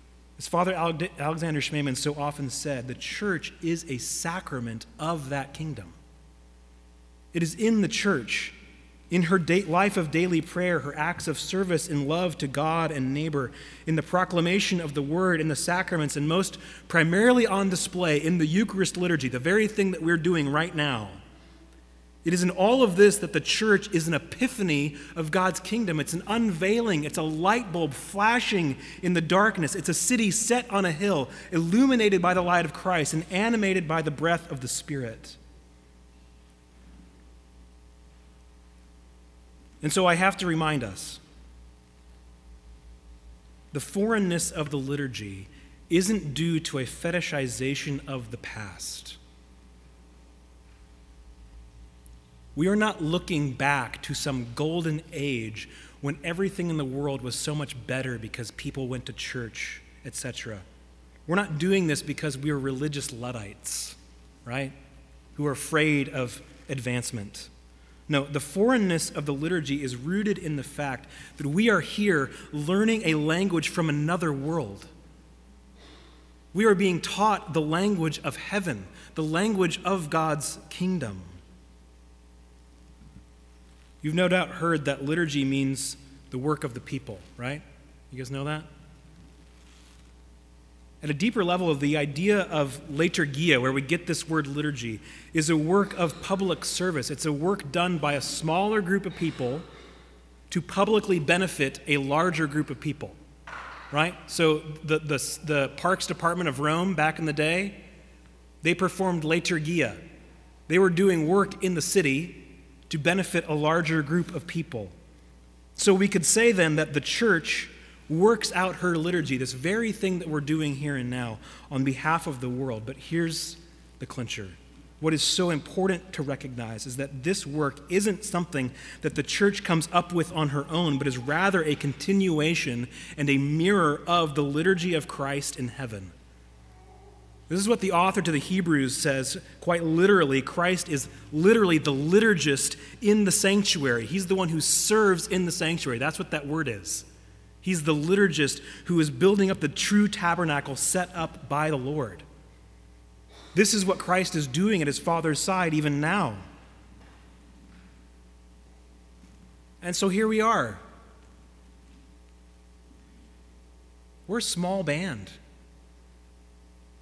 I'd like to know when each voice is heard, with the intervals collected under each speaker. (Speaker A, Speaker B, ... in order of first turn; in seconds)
Speaker A: 0.4-6.0, 7.3-8.6, 9.1-21.2, 22.2-35.4, 39.8-41.2, 43.7-49.2, 52.5-60.6, 61.3-64.7, 65.3-67.5, 68.1-74.9, 76.5-81.3, 84.0-88.7, 91.0-99.6, 100.5-103.2, 103.9-107.8, 108.6-110.0, 110.7-114.9, 115.8-136.1, 137.5-147.1, 147.6-152.2, 153.5-156.4, 159.8-160.8, 164.3-165.4